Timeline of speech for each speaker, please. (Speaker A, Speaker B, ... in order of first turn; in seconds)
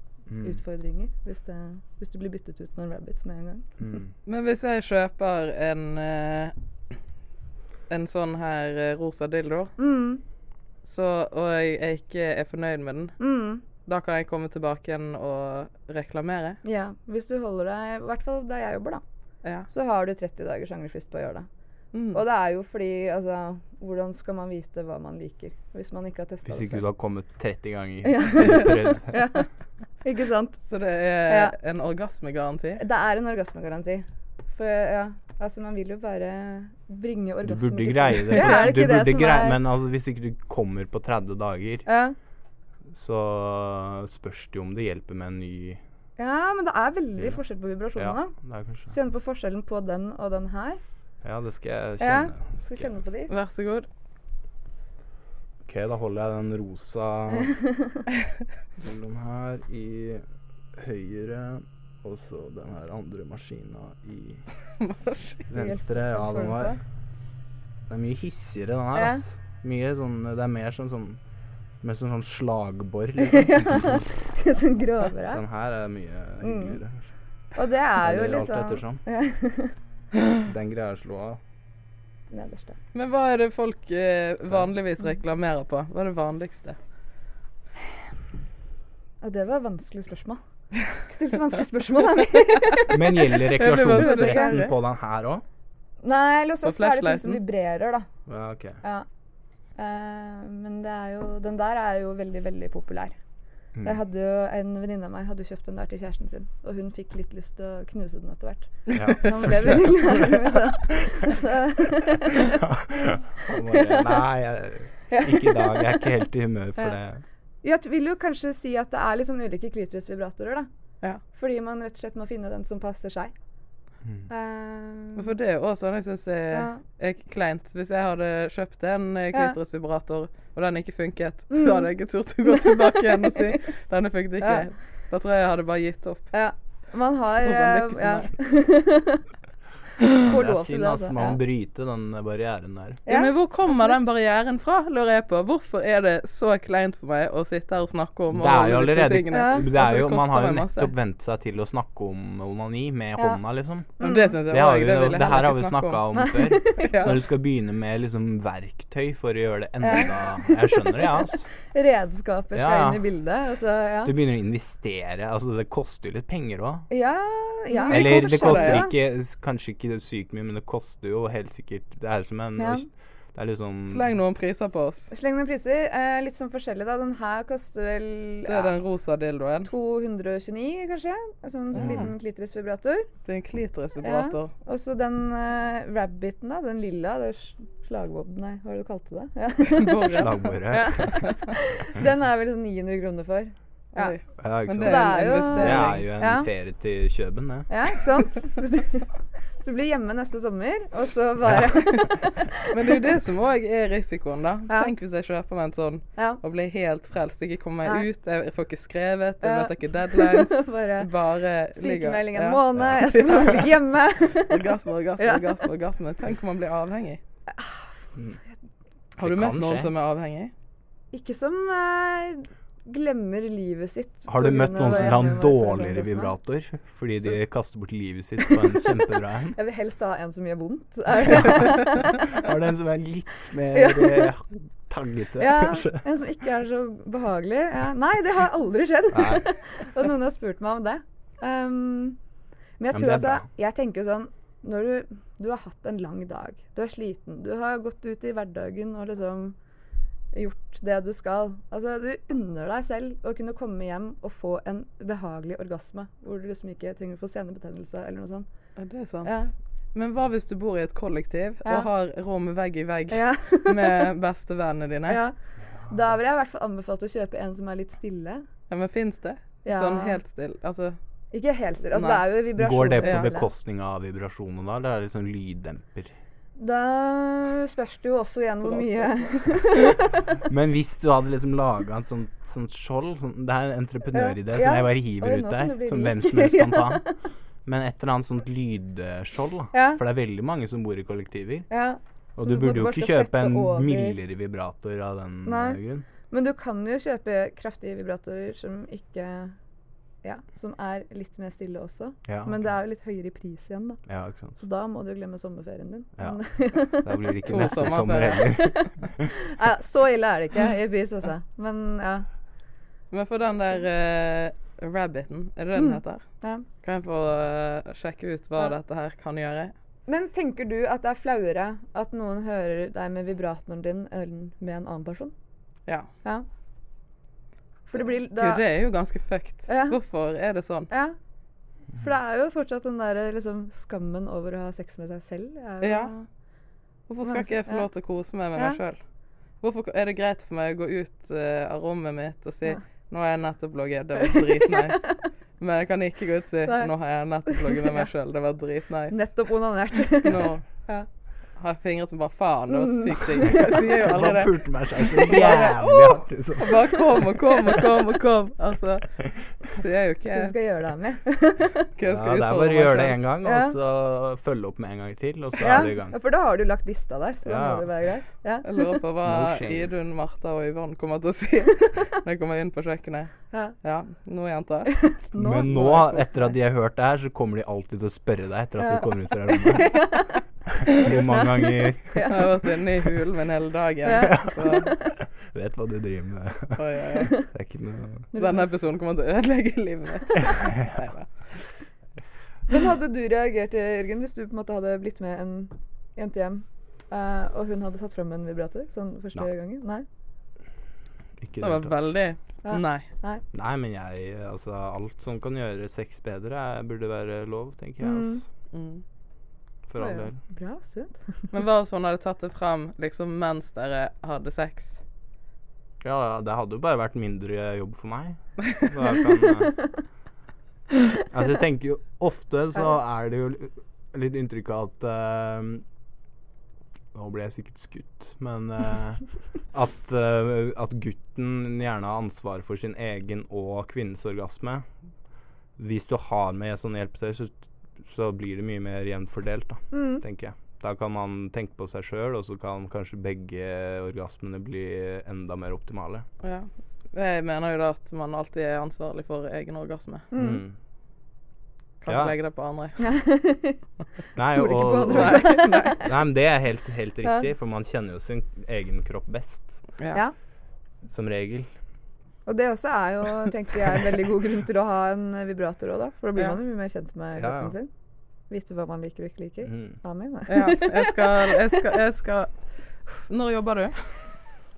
Speaker A: 0.3-0.6, 3.8-4.1, 26.4-29.2, 37.4-41.9, 42.9-45.8, 47.9-48.9, 51.2-52.9, 55.6-57.5, 58.8-60.2, 60.8-64.5, 65.5-66.8, 67.9-71.2, 71.8-74.0, 75.3-77.1, 78.0-79.0, 80.4-81.4, 92.9-95.4, 98.3-98.8, 108.9-110.3, 112.7-117.2, 124.0-124.3, 140.2-143.0, 148.3-161.5, 162.5-163.0, 164.0-166.9, 167.9-174.1, 181.7-182.1, 190.1-191.3, 194.4-197.9, 212.7-213.0, 219.2-219.9, 224.3-229.6, 231.3-236.0, 239.1-239.4, 242.9-243.4, 272.6-276.1, 280.4-287.0, 287.6-291.7, 292.4-296.1, 302.3-302.5, 304.1-304.6, 306.2-309.3, 354.0-357.1, 362.0-366.1, 367.4-367.9, 369.2-369.9, 375.4-380.1, 380.8-382.5, 384.1-388.3, 401.4-402.1, 403.5-408.4, 409.9-410.4, 416.0-419.8, 421.2-425.8, 427.1-434.8, 435.8-446.2, 450.4-450.8, 452.1-452.3, 454.4-459.9, 461.0-461.7, 467.4-467.8, 469.6-470.0
Speaker B: 0.4-3.8, 9.8-10.2, 13.2-13.6, 16.6-19.0, 19.7-21.4, 22.1-26.8, 28.0-29.4, 30.0-30.6, 31.2-31.6, 32.8-39.6, 41.9-42.1, 46.2-48.3, 48.9-50.8, 52.0-53.3, 57.5-58.0, 65.5-66.8, 68.9-69.2, 73.2-75.4, 76.4-76.8, 77.5-79.7, 82.3-82.7, 89.2-90.4, 90.9-94.7, 96.0-98.0, 99.8-103.1, 103.8-112.6, 113.5-114.2, 115.1-116.1, 117.6-120.7, 121.3-123.3, 124.3-125.3, 126.5-126.8, 131.5-131.9, 132.5-133.4, 134.4-134.7, 136.3-139.2, 140.1-141.4, 143.1-144.0, 149.3-149.7, 154.0-154.5, 156.1-157.2, 159.8-164.1, 166.9-168.9, 172.6-172.8, 175.1-178.8, 179.7-183.1, 184.0-194.2, 194.7-196.5, 197.7-202.6, 204.7-204.9, 206.2-206.4, 209.4-211.1, 211.8-214.6, 215.2-215.6, 217.5-218.0, 221.1-226.3, 229.5-232.3, 233.7-234.3, 235.4-242.2, 242.8-249.6, 250.3-258.5, 259.2-259.5, 261.6-261.9, 263.1-264.1, 265.1-265.3, 265.9-268.4, 269.6-270.2, 271.3-273.5, 276.6-280.4, 284.1-287.1, 289.7-290.0, 291.7-294.2, 295.4-299.5, 300.2-304.0, 304.6-307.5, 308.4-308.9, 309.5-312.3, 315.7-316.6, 320.1-325.3, 327.9-328.7, 329.7-330.0, 330.9-331.1, 331.9-336.2, 337.2-337.9, 346.7-346.9, 347.5-348.0, 349.1-351.1, 352.7-353.9, 360.3-361.9, 363.4-363.8, 365.6-369.0, 373.5-373.8, 374.9-376.6, 378.8-380.4, 381.0-382.6, 384.1-385.1, 388.3-388.8, 392.7-400.0, 402.6-403.4, 408.0-408.4, 410.5-411.5, 439.9-440.2, 450.3-450.6, 453.0-453.8, 454.4-456.1, 462.4-467.9, 468.5-471.4
Speaker C: 4.2-6.5, 7.9-9.7, 10.8-13.1, 13.8-16.6, 21.9-22.2, 30.6-32.8, 53.3-53.9, 64.8-65.4, 82.9-86.8, 93.5-94.7, 96.6-97.4, 125.2-136.3, 137.4-138.3, 143.1-150.9, 154.0-156.0, 156.8-157.2, 167.7-168.8, 173.8-175.1, 178.4-179.7, 183.2-184.5, 189.7-191.3, 193.9-196.1, 202.7-213.7, 214.3-217.2, 219.2-220.5, 258.8-259.4, 259.9-265.2, 268.7-271.0, 271.9-272.2, 273.0-273.3, 278.6-279.9, 307.4-308.5, 313.1-316.2, 316.8-319.7, 328.3-330.9, 335.8-336.1, 337.1-339.0, 339.6-349.2, 350.2-350.6, 351.6-354.5, 355.2-360.5, 361.9-363.2, 368.6-375.0, 382.3-384.9, 386.8-387.3, 388.3-391.3, 401.6-403.1, 408.7-409.0, 410.0-410.3, 411.5-415.0, 446.4-450.2, 452.0-453.0, 455.1-456.1, 470.5-472.5, 473.0-474.1